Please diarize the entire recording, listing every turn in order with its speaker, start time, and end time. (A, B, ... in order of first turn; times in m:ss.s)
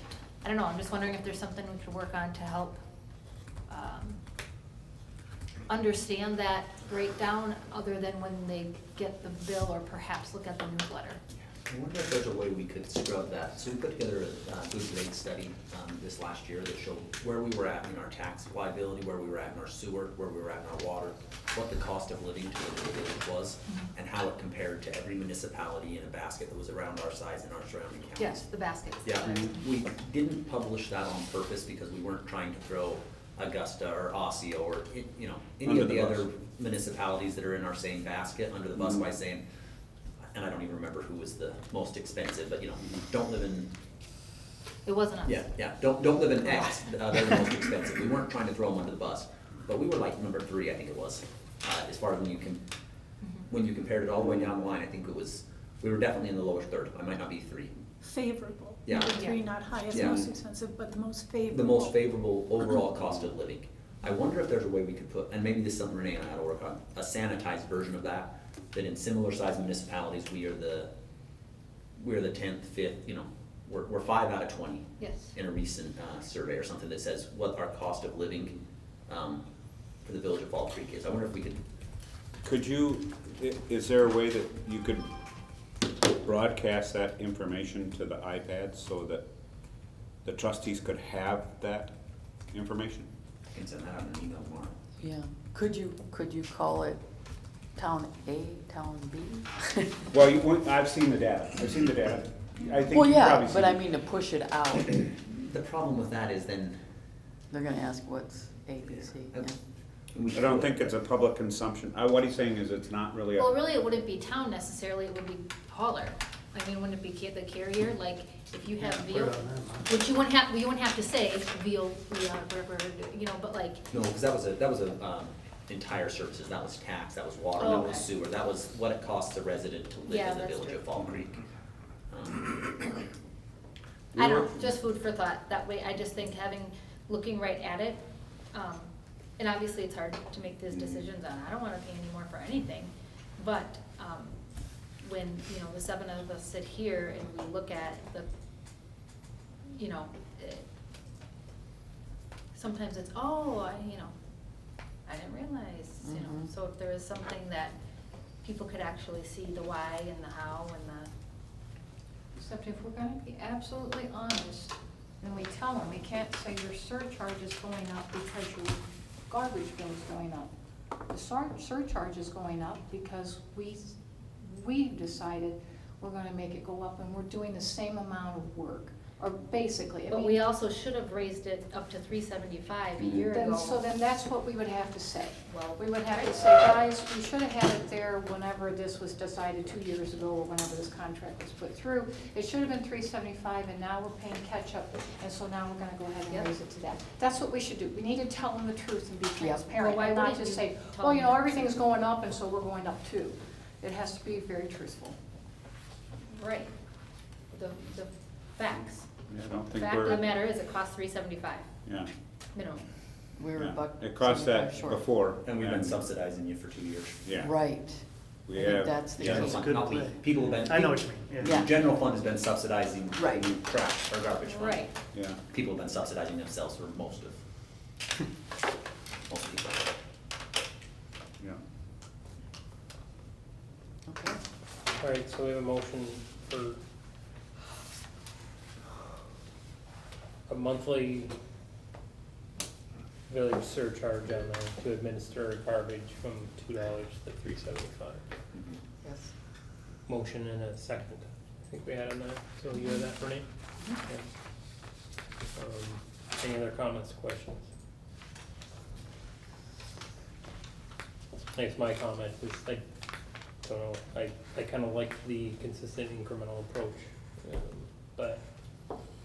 0:00.4-0:02.8 A
0:03.7-0:04.2 A
0:05.7-0:11.2 A
0:11.7-0:28.4 B
0:28.2-0:29.7 A
0:29.0-0:39.4 B
0:35.6-0:36.3 C
0:38.8-0:39.0 C
0:40.3-0:43.7 B
0:44.8-0:45.5 A
0:45.2-0:52.6 B
0:46.4-0:46.8 A
0:53.2-0:53.5 A
0:53.5-0:57.7 B
0:58.0-1:02.8 D
0:58.8-0:59.2 B
0:59.1-0:59.4 A
0:59.9-1:00.3 B
1:01.5-1:10.9 B
1:12.0-1:14.8 B
1:15.0-1:15.3 A
1:15.4-1:18.5 B
1:19.1-1:19.4 B
1:20.0-1:21.6 B
1:22.4-1:25.1 C
1:26.2-1:29.2 C
1:30.2-1:32.0 C
1:32.5-1:33.1 C
1:33.5-1:34.7 B
1:35.0-1:37.0 E
1:37.8-1:40.1 E
1:40.1-1:43.8 C
1:42.9-1:45.0 E
1:45.3-1:46.8 B
1:47.5-1:49.6 E
1:48.9-1:49.5 B
1:50.1-1:50.9 B
1:50.3-1:53.6 C
1:53.4-2:03.9 A
1:58.8-2:00.0 F
2:03.9-2:11.4 B
2:07.6-2:08.1 A
2:10.1-2:10.8 A
2:12.1-2:12.5 B
2:14.1-2:14.7 C
2:14.2-2:24.4 A
2:25.0-2:28.3 A
2:29.7-2:30.7 A
2:32.5-2:34.1 A
2:35.1-2:37.8 A
2:36.0-2:36.5 E
2:38.4-2:41.1 A
2:42.3-2:50.5 G
2:51.1-3:00.4 G
3:00.1-3:03.8 A
3:03.2-3:25.2 G
3:05.5-3:06.3 A
3:19.8-3:21.8 A
3:26.3-3:26.7 A
3:27.5-3:29.1 A
3:29.3-3:30.2 C
3:29.8-3:31.7 A
3:32.6-3:32.8 A
3:33.4-3:35.0 E
3:33.6-3:36.0 C
3:35.4-3:37.2 B
3:37.2-3:37.5 C
3:37.3-3:39.8 E
3:38.5-3:39.6 C
3:39.2-3:41.7 F
3:39.3-3:40.8 B
3:41.4-3:41.7 E
3:41.4-3:44.8 B
3:43.1-3:43.6 E
3:44.5-3:44.9 A
3:45.1-3:45.4 C
3:45.5-3:47.4 B
3:49.3-3:49.8 B
3:54.1-3:54.4 E
3:55.0-3:56.8 H
4:00.5-4:01.3 H
4:03.3-4:08.2 H
4:10.1-4:13.5 H
4:15.6-4:17.7 H
4:21.5-4:22.8 H
4:23.6-4:28.4 H